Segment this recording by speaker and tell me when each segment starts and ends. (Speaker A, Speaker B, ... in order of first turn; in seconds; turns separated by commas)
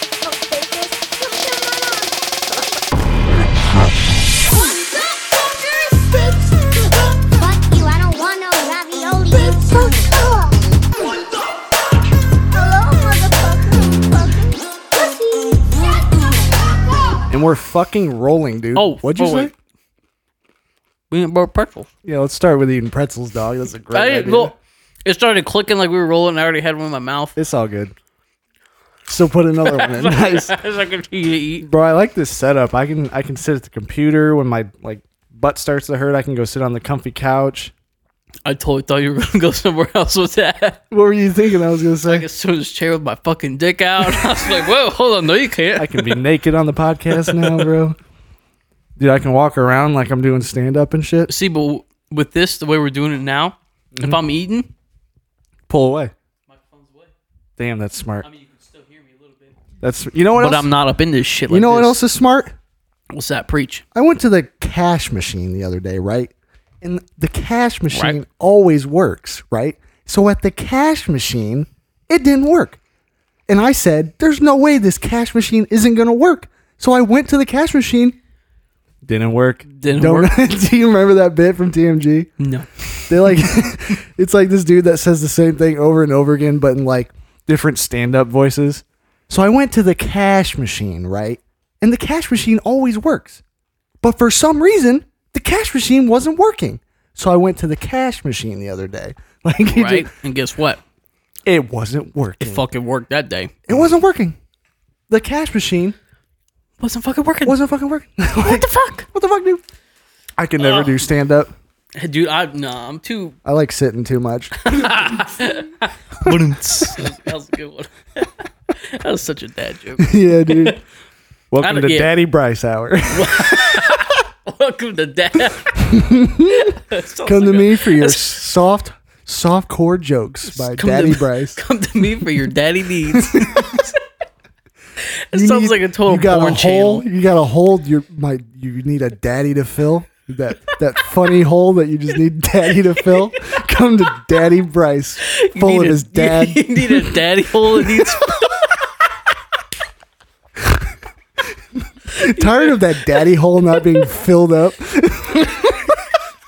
Speaker A: 0.2-2.8, Speaker A: 4.4-11.4, Speaker A: 12.5-17.2, Speaker B: 17.3-19.5, Speaker C: 18.8-19.5, Speaker C: 21.1-21.9, Speaker B: 22.0-24.5, Speaker C: 23.9-24.5, Speaker C: 25.1-27.4, Speaker B: 27.4-27.9, Speaker B: 29.1-30.6, Speaker C: 29.6-31.7, Speaker B: 31.6-37.7, Speaker C: 38.5-40.8, Speaker B: 40.9-42.3, Speaker C: 42.0-46.2, Speaker B: 45.8-48.0, Speaker C: 47.1-47.7, Speaker B: 49.0-51.3, Speaker C: 51.3-54.7, Speaker B: 55.7-56.1, Speaker C: 56.5-57.1, Speaker B: 57.6-58.3, Speaker C: 58.2-59.6, Speaker B: 59.8-60.7, Speaker C: 60.4-62.0, Speaker B: 61.5-62.5, Speaker C: 63.1-63.8, Speaker B: 63.9-72.8, Speaker C: 67.9-68.2, Speaker B: 73.5-78.2, Speaker B: 79.1-82.3, Speaker C: 79.8-80.3, Speaker C: 82.4-83.4, Speaker B: 83.1-93.4, Speaker B: 94.0-100.1, Speaker C: 99.7-100.8, Speaker B: 101.5-102.7, Speaker C: 102.4-103.9, Speaker B: 103.7-104.4, Speaker B: 105.1-106.0, Speaker C: 106.8-107.6, Speaker B: 107.5-109.6, Speaker C: 108.4-109.0, Speaker B: 110.4-111.5, Speaker C: 110.6-111.1, Speaker C: 112.0-113.4, Speaker B: 113.5-115.4, Speaker C: 114.6-120.8, Speaker B: 116.2-117.1, Speaker B: 120.0-120.8, Speaker B: 121.5-124.1, Speaker C: 121.6-122.1, Speaker C: 123.1-128.3, Speaker B: 125.8-131.6, Speaker C: 130.5-134.0, Speaker B: 133.1-133.9, Speaker C: 135.1-137.1, Speaker B: 135.3-147.2, Speaker C: 142.7-143.3, Speaker C: 145.3-148.7, Speaker B: 147.8-148.3, Speaker B: 151.8-156.0, Speaker C: 152.2-154.2